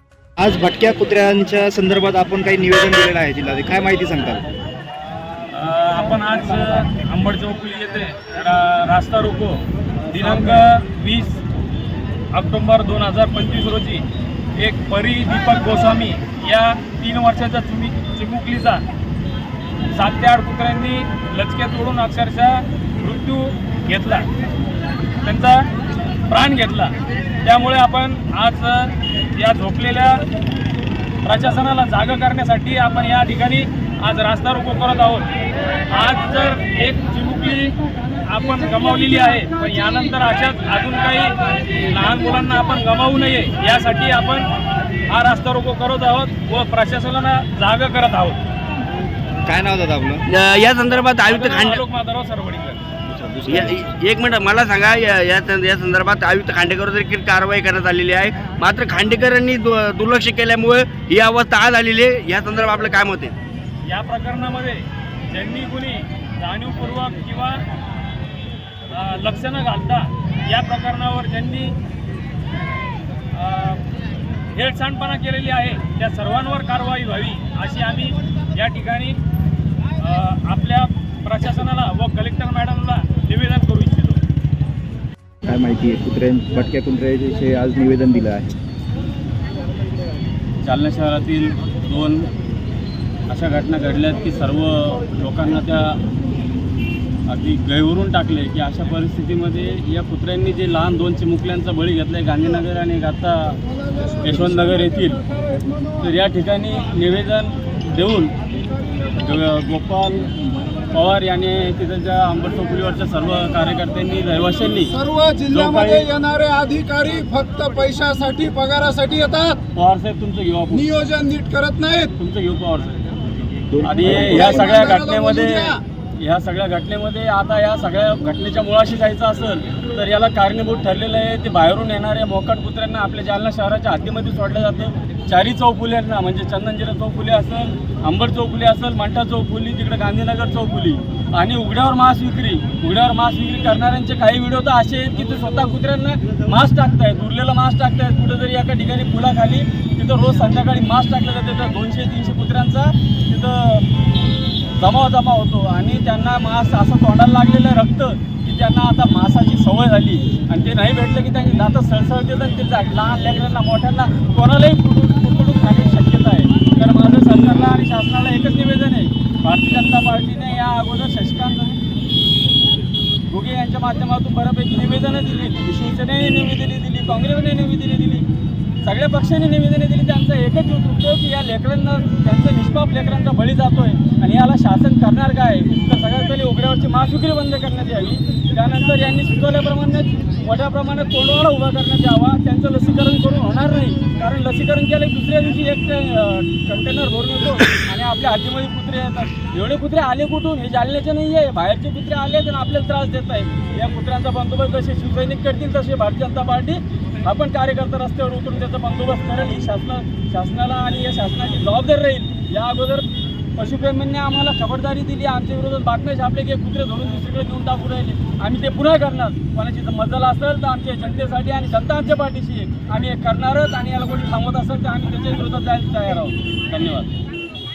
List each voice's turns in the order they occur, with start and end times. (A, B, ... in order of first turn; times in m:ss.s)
0:00.4-0:04.4 A
0:05.5-0:11.4 B
0:12.3-0:14.0 B
0:14.6-0:18.8 B
0:19.9-0:24.3 B
0:25.2-0:25.7 B
0:26.3-0:30.2 B
0:31.2-0:35.3 B
0:35.9-0:37.7 B
0:38.3-0:41.4 B
0:41.9-0:44.5 B
0:45.1-0:48.4 B
0:49.5-0:50.2 A
0:50.4-0:51.8 C
0:51.3-0:52.8 B
0:53.2-0:53.7 A
0:53.5-1:03.3 C
1:03.9-1:07.6 B
1:08.9-1:11.7 B
1:13.3-1:13.8 B
1:14.5-1:19.2 B
1:20.0-1:24.2 B
1:25.4-1:28.5 A
1:30.6-1:32.3 D
1:33.3-1:36.0 D
1:37.3-1:45.2 D
1:46.0-1:48.3 D
1:49.2-1:50.3 D
1:50.9-1:54.9 D
1:54.9-1:59.6 E
1:55.5-1:56.1 D
1:59.8-2:00.9 D
2:00.7-2:02.1 E
2:02.2-2:03.1 D
2:03.7-2:04.6 A
2:03.8-2:33.9 D
2:04.0-2:05.8 E
2:34.8-2:51.8 D
2:53.3-2:58.2 D
2:58.8-3:47.1 D